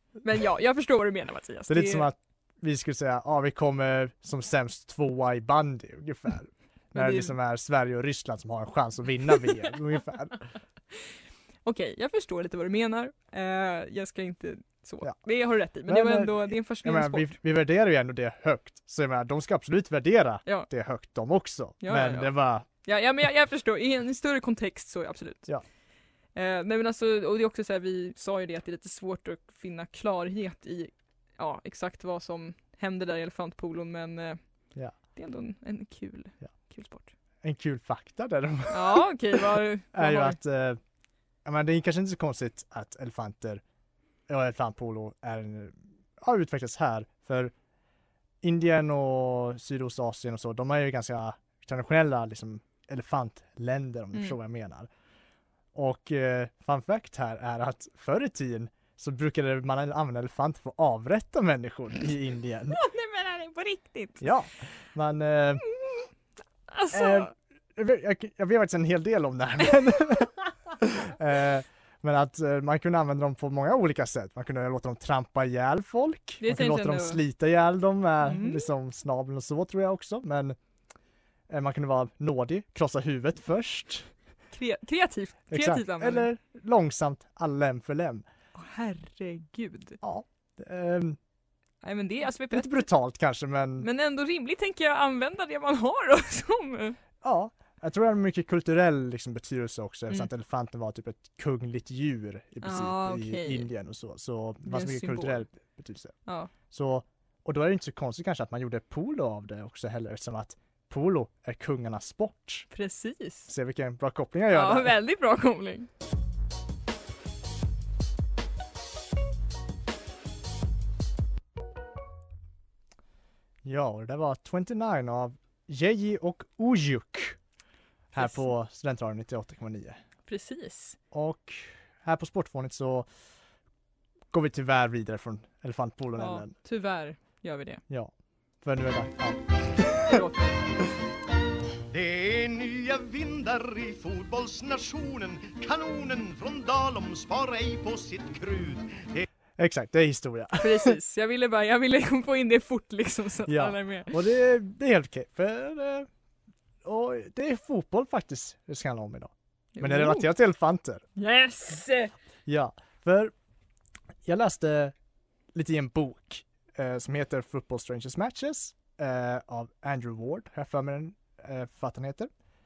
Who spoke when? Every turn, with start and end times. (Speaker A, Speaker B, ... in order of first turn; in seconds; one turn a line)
Speaker A: 0.2-2.1
Speaker B: 1.7-10.5
Speaker A: 6.9-7.3
Speaker A: 11.6-17.4
Speaker B: 15.0-22.7
Speaker A: 20.4-20.7
Speaker A: 21.8-37.1
Speaker B: 37.4-40.8
Speaker A: 38.7-40.4
Speaker B: 41.5-43.6
Speaker B: 44.3-47.5
Speaker B: 48.4-54.9
Speaker B: 55.7-62.8
Speaker A: 62.7-64.3
Speaker B: 64.2-65.7
Speaker A: 66.7-67.3
Speaker B: 66.9-80.6
Speaker A: 76.4-77.2
Speaker A: 78.2-78.7
Speaker B: 81.5-84.1
Speaker A: 84.5-86.3
Speaker B: 85.5-88.3
Speaker A: 88.5-90.0
Speaker B: 90.0-91.2
Speaker A: 91.8-92.9
Speaker B: 92.5-93.9
Speaker A: 93.8-97.0
Speaker B: 97.2-112.7
Speaker A: 102.6-103.7
Speaker A: 104.6-105.5
Speaker A: 106.3-106.5
Speaker A: 112.7-113.5
Speaker B: 113.5-115.0
Speaker A: 114.5-115.9
Speaker B: 123.6-127.4
Speaker B: 128.1-130.0
Speaker A: 128.2-128.4
Speaker A: 130.3-131.0
Speaker B: 131.1-133.1
Speaker B: 134.3-136.5
Speaker A: 136.2-137.8
Speaker B: 137.9-140.1
Speaker A: 140.0-140.6
Speaker C: 141.9-149.3
Speaker B: 149.6-150.9
Speaker A: 150.6-154.2
Speaker B: 153.5-156.1
Speaker B: 156.8-161.0
Speaker A: 159.8-160.3
Speaker A: 161.2-162.1
Speaker B: 162.5-163.3
Speaker B: 164.3-164.9
Speaker B: 165.5-172.3